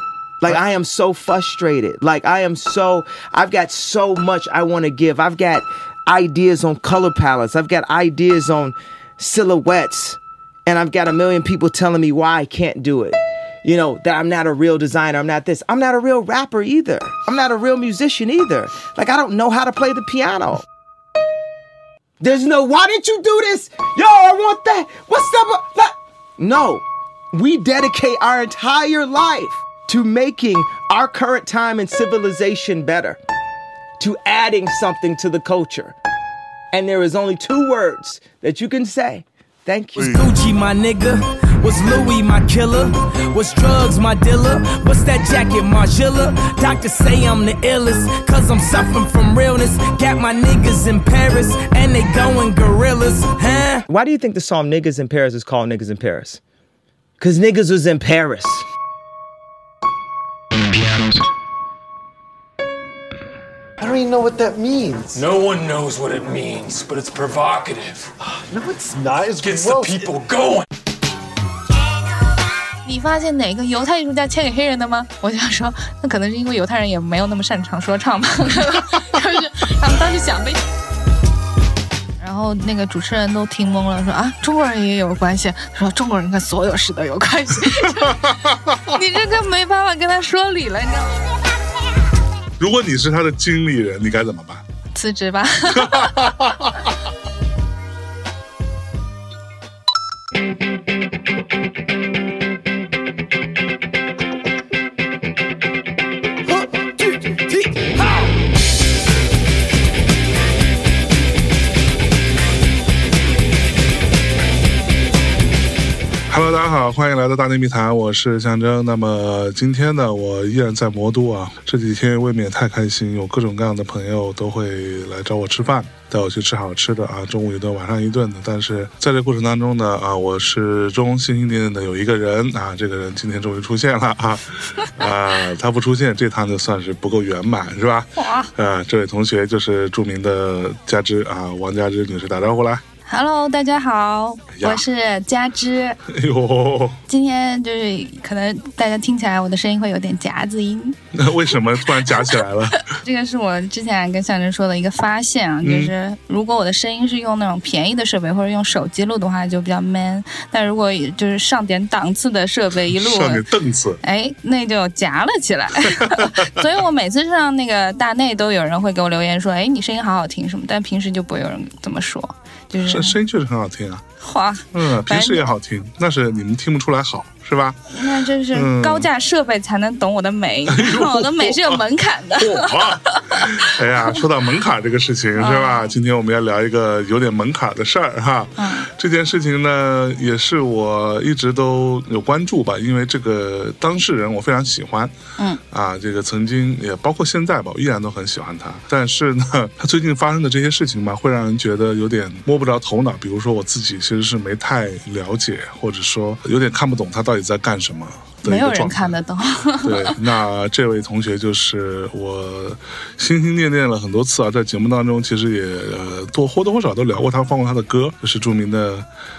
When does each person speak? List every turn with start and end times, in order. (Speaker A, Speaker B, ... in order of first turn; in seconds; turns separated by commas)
Speaker A: 0.4-20.7, Speaker A: 22.2-33.2, Speaker A: 34.0-36.0, Speaker A: 36.7-40.2, Speaker B: 40.0-53.9, Speaker A: 53.9-56.4, Speaker A: 57.2-58.7, Speaker C: 63.8-65.3, Speaker D: 65.1-68.1, Speaker C: 68.5-70.1, Speaker D: 69.4-70.7, Speaker E: 72.8-80.6, Speaker E: 82.2-88.3, Speaker F: 87.8-88.9, Speaker E: 88.9-91.4, Speaker F: 92.6-94.6, Speaker E: 95.0-96.3, Speaker F: 95.7-96.8, Speaker F: 116.3-142.8, Speaker E: 138.2-138.5, Speaker E: 143.1-146.0, Speaker F: 144.5-144.8, Speaker F: 146.1-147.0, Speaker E: 147.1-151.0, Speaker F: 151.1-153.0, Speaker E: 152.1-163.4, Speaker F: 155.6-155.9, Speaker F: 162.9-164.0, Speaker E: 164.0-173.2, Speaker F: 166.0-166.5, Speaker F: 172.8-174.0, Speaker E: 174.2-175.5, Speaker F: 174.7-177.8, Speaker E: 177.9-184.2, Speaker F: 178.5-179.1, Speaker F: 180.7-181.8, Speaker F: 182.3-195.2, Speaker E: 185.4-185.9, Speaker E: 188.6-188.9, Speaker F: 195.7-209.2, Speaker E: 208.4-210.2, Speaker F: 209.8-219.1